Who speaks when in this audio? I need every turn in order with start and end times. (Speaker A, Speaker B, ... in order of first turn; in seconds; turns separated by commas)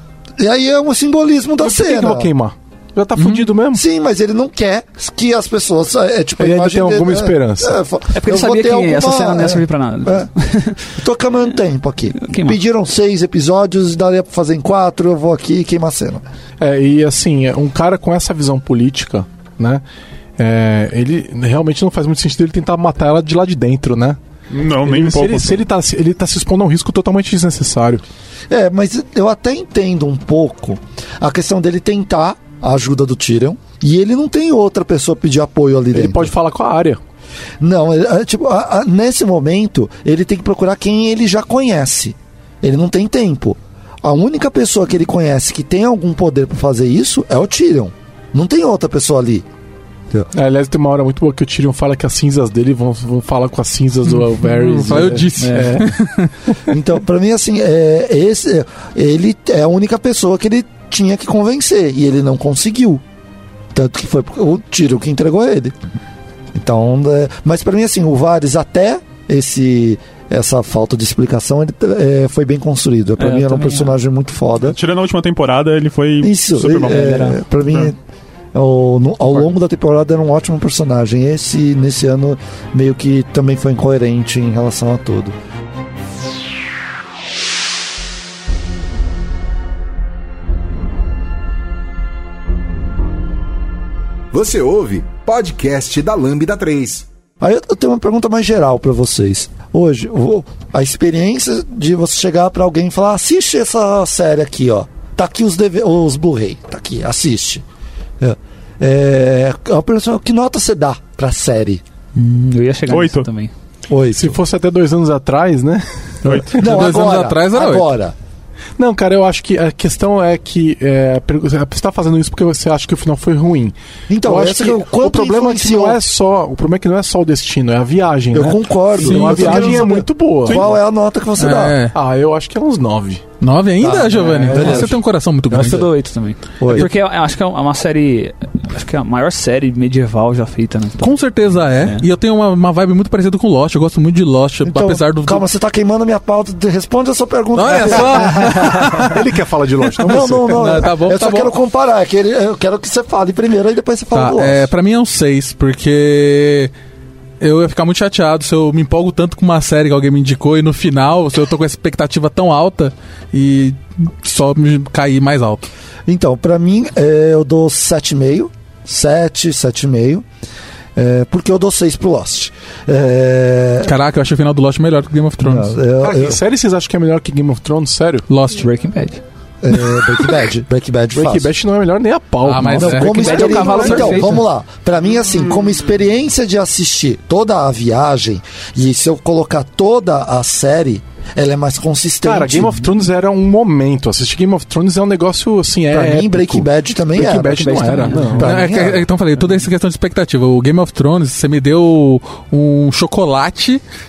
Speaker A: 0.4-2.3, Speaker B: 1.6-3.8, Speaker C: 3.2-3.5, Speaker A: 3.7-16.2, Speaker B: 6.4-7.8, Speaker D: 8.1-10.8, Speaker D: 12.2-12.6, Speaker B: 16.6-19.8, Speaker B: 20.4-24.2, Speaker E: 24.5-25.6, Speaker B: 24.8-28.0, Speaker A: 28.5-36.3, Speaker B: 35.9-37.0, Speaker A: 37.6-49.5, Speaker B: 50.3-55.9, Speaker C: 54.4-56.3, Speaker D: 55.4-55.7, Speaker A: 56.7-63.0, Speaker A: 63.7-65.8, Speaker A: 66.5-74.8, Speaker D: 73.2-73.9, Speaker E: 74.6-77.9, Speaker A: 76.2-78.0, Speaker D: 76.8-77.4, Speaker A: 78.5-85.3, Speaker F: 94.3-97.1, Speaker A: 97.4-107.6, Speaker A: 108.2-111.8, Speaker D: 112.2-113.5, Speaker E: 112.9-113.3, Speaker A: 113.9-114.4, Speaker B: 114.2-116.8, Speaker E: 116.2-116.6, Speaker A: 116.6-118.2, Speaker C: 116.6-117.9, Speaker B: 118.8-130.8, Speaker A: 124.1-126.0, Speaker A: 128.3-131.8, Speaker C: 129.0-130.0, Speaker E: 130.4-130.7, Speaker C: 131.4-131.9, Speaker B: 131.9-133.3, Speaker C: 133.4-135.9, Speaker A: 133.8-135.0, Speaker B: 134.2-135.0, Speaker D: 134.5-134.8, Speaker D: 135.5-141.2, Speaker A: 136.6-136.9, Speaker C: 141.0-145.4, Speaker A: 144.7-149.1, Speaker C: 147.5-149.2, Speaker B: 148.3-150.8, Speaker A: 150.0-154.7, Speaker C: 150.1-151.5, Speaker C: 154.1-156.7, Speaker C: 157.4-165.7, Speaker A: 166.1-170.2, Speaker A: 171.0-173.9, Speaker C: 173.8-175.8, Speaker A: 175.4-176.4, Speaker B: 176.0-178.3, Speaker C: 178.3-178.7, Speaker D: 178.6-179.2, Speaker A: 179.6-181.5, Speaker B: 181.1-184.4, Speaker C: 182.4-183.7, Speaker A: 182.8-192.9, Speaker D: 183.1-184.4, Speaker B: 192.2-198.7, Speaker A: 195.9-199.1, Speaker D: 197.5-198.5, Speaker C: 198.4-203.8